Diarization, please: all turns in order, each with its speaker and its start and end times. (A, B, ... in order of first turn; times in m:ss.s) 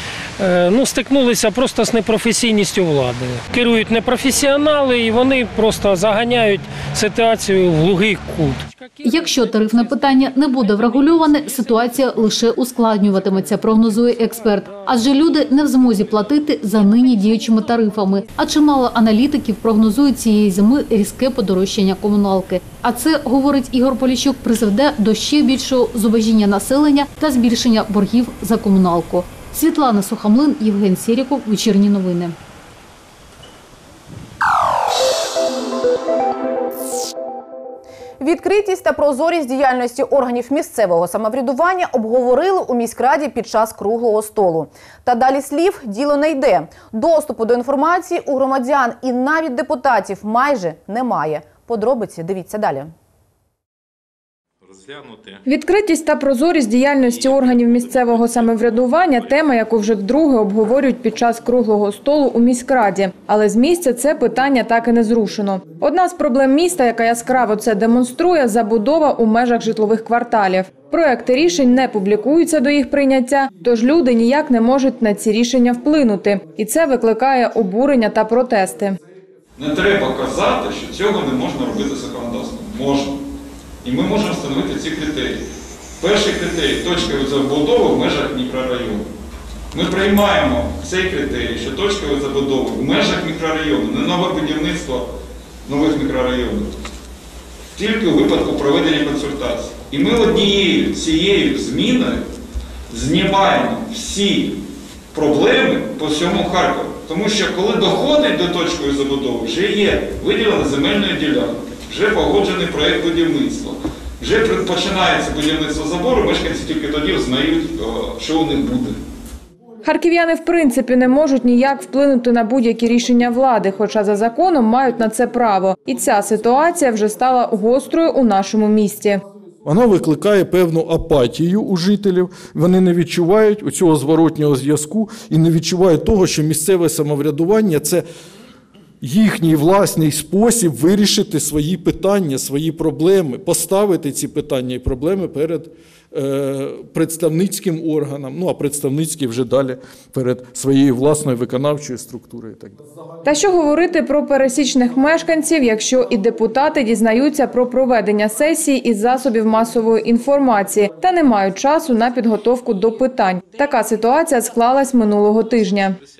0:00.4-0:08.6 A
0:09.0-0:32.3 B
0:38.2-0:52.9 C
0:54.8-0:55.4 D
0:55.4-1:19.0 E
1:19.6-1:23.2 D
1:23.8-1:25.4 D
1:26.0-1:29.0 D
1:29.7-1:35.1 D
1:35.6-1:36.7 D
1:37.7-1:42.2 D
1:42.9-1:44.6 D
1:45.1-1:59.0 D
1:59.8-2:09.2 E
2:09.6-2:18.0 F
2:19.0-2:32.8 F
2:33.2-2:46.0 E